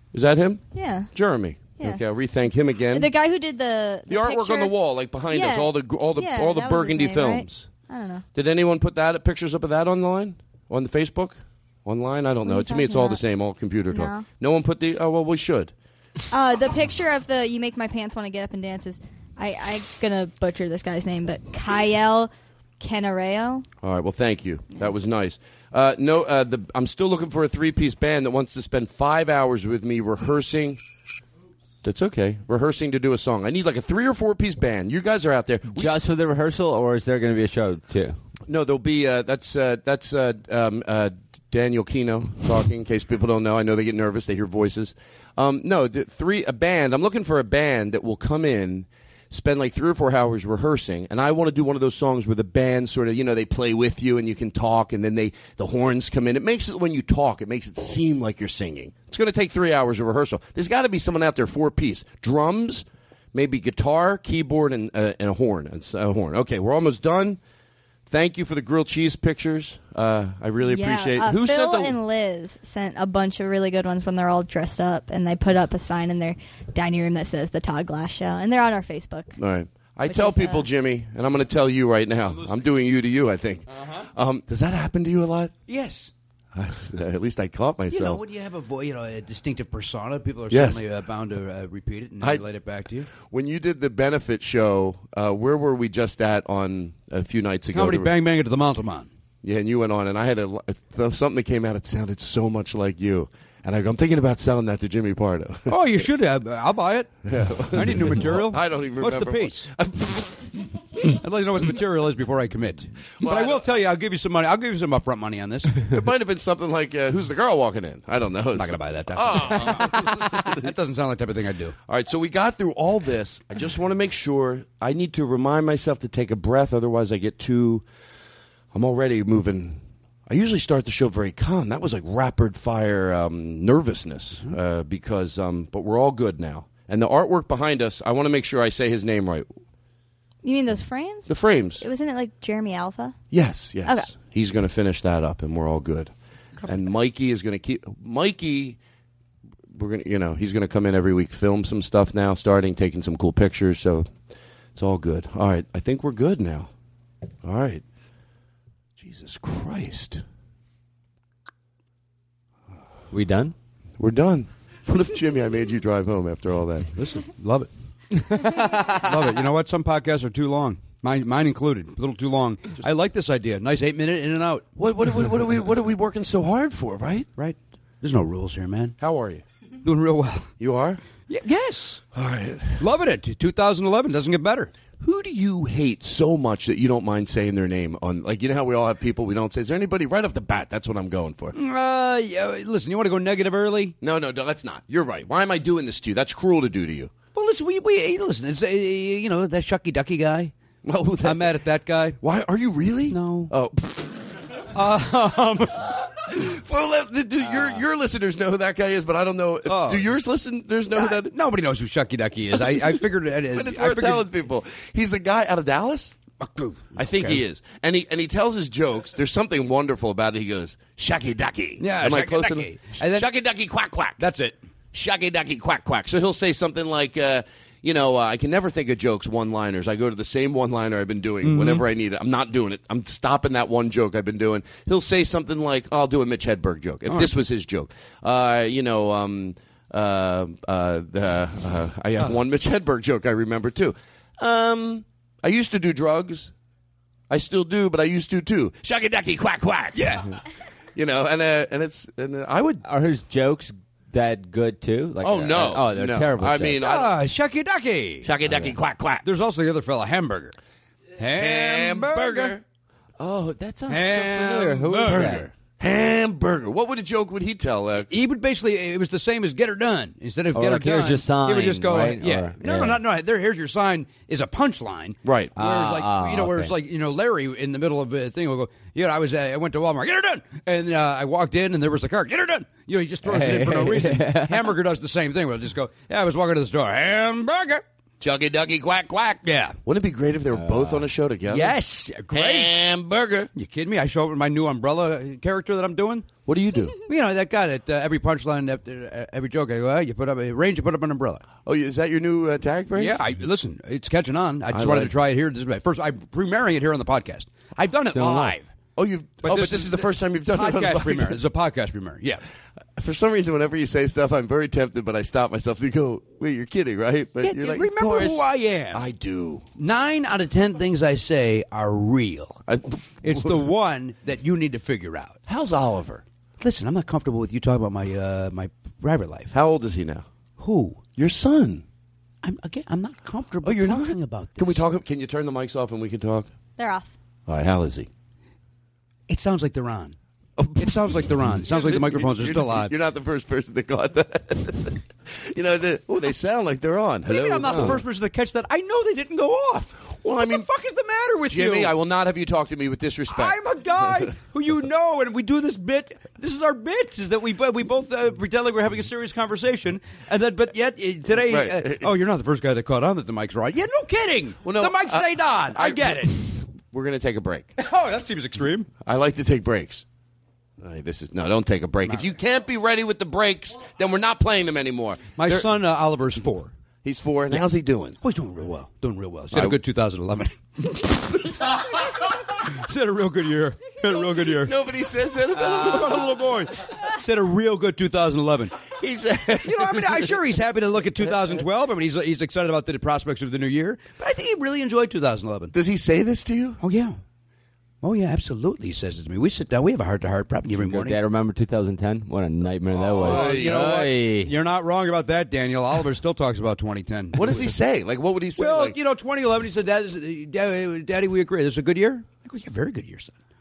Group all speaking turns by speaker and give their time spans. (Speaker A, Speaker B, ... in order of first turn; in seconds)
Speaker A: 0.1-3.1, 4.1-7.7, 8.3-15.7, 23.8-30.8, 31.8-35.9, 38.5-67.4, 68.1-72.0, 79.4-85.5, 86.5-88.2, 90.5-90.8, 93.1-98.1, 99.4-105.8, 107.2-110.4, 113.2-113.7, 115.8-120.7, 121.9-127.8, 128.7-139.5, 141.3-141.8, 143.3-146.1, 146.6-148.8, 149.7-154.1, 154.8-156.7, 157.4-157.8, 159.0-160.2, 164.0-166.9, 174.8-177.3, 179.0-179.4, 180.6-181.0, 182.1-182.8, 185.0-191.6, 194.0-197.1, 200.8-201.6, 202.2-204.2, 206.2-211.3, 212.7-213.0, 213.5-216.2, 217.0-224.2, 224.9-246.5, 247.3-250.3, 251.0-252.8, 255.2-257.2, 258.2-259.2, 261.3-262.6, 263.2-268.1, 275.2-275.5, 288.2-291.8, 292.3-293.5, 296.5-297.0, 301.6-303.2, 304.7-305.1, 309.0-311.4, 313.0-319.6, 322.7-323.6, 325.5-326.2, 329.5-330.3, 331.2-331.8, 333.6-336.5, 337.5-338.1, 340.6-348.0, 350.2-350.6, 351.5-353.6, 361.4-362.1, 364.6-367.7, 369.1-370.0, 370.8-375.7, 377.0-378.2, 379.5-379.8, 384.5-386.5, 388.9-390.4, 395.7-396.8, 403.1-403.9, 407.4-409.0
Speaker B: 0.7-1.1, 2.9-4.8, 5.3-8.2, 12.4-13.2, 13.9-14.2, 16.3-23.6, 70.6-79.4, 80.1-80.7, 140.4-143.2, 143.9-144.1, 336.8-337.1
Speaker C: 35.7-38.2, 163.1-163.6, 168.3-168.9, 252.8-256.8, 258.4-258.8, 263.6-265.5, 270.5-273.0, 275.6-276.7, 283.2-284.7, 290.5-291.1, 308.1-308.6, 347.7-348.0, 400.7-404.5
Speaker D: 83.7-84.1, 85.7-86.1, 87.9-93.1, 97.7-99.1, 105.7-107.2, 107.7-109.7, 111.0-115.8, 118.5-121.8, 166.9-167.7, 168.9-174.7, 177.4-179.0, 179.8-180.5, 181.3-182.0, 182.8-184.7, 191.6-193.9, 197.3-200.5, 201.2-202.2, 203.1-203.5, 204.7-205.9, 209.7-210.1, 210.9-214.3, 216.4-217.4, 221.8-223.3, 224.2-224.6, 231.4-231.8, 237.1-237.3, 249.9-250.3, 256.8-258.3, 259.2-260.6, 261.2-262.6, 263.9-265.4, 268.1-287.8, 289.4-289.8, 291.5-292.8, 293.6-296.3, 297.1-301.4, 302.9-308.7, 309.4-312.4, 317.4-319.0, 319.8-322.6, 323.2-325.4, 326.6-329.5, 330.6-331.0, 332.4-334.8, 339.3-340.2, 340.8-342.9, 347.3-351.9, 353.3-366.4, 367.8-368.9, 375.4-376.7, 378.2-382.0, 382.5-384.7, 385.5-388.9, 389.6-395.7, 396.8-397.2, 398.0-401.2, 403.0-407.7, 408.6-413.3